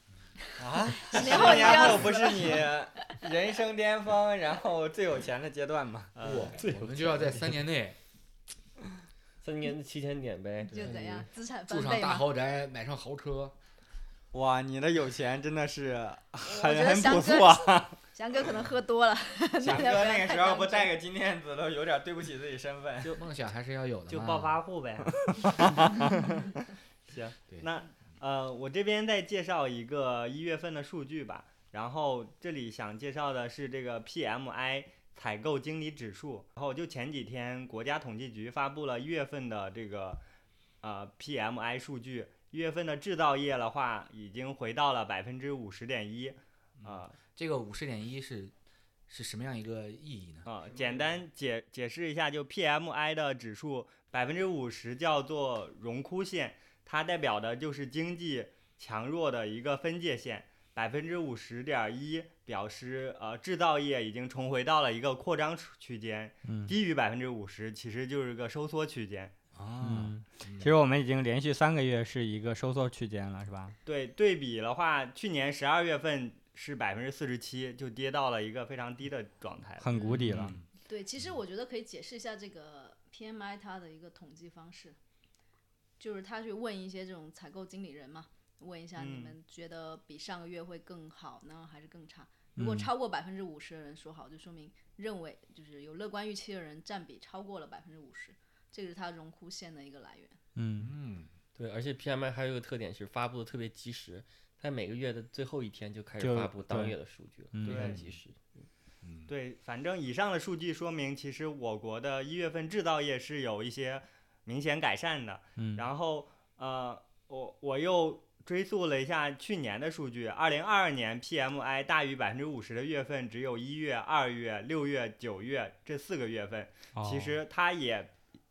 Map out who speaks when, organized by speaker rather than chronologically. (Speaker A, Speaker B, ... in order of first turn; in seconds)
Speaker A: 0.6-6.2, 14.3-18.0, 19.6-23.2, 25.3-26.1, 66.5-66.8, 69.8-73.8, 79.8-80.6, 92.6-92.9, 100.6-101.0, 106.2-107.0, 107.5-108.0, 115.6-115.8, 127.0-127.4
Speaker B: 1.0-3.1, 10.7-12.3, 16.4-20.9, 80.0-80.2, 80.9-85.0, 86.0-100.4
Speaker C: 1.2-2.0, 6.2-6.6, 24.1-25.7, 27.1-40.2, 40.8-47.2, 50.5-69.3, 73.8-79.9, 89.0-89.4, 107.6-108.0, 109.3-128.2
Speaker D: 6.2-8.0, 10.7-11.0, 11.7-13.6, 23.1-24.6, 46.8-48.5, 49.1-50.9, 69.5-70.8, 80.1-80.6, 100.8-101.3, 109.0-109.3
Speaker E: 6.6-7.5, 9.4-11.3, 101.6-108.5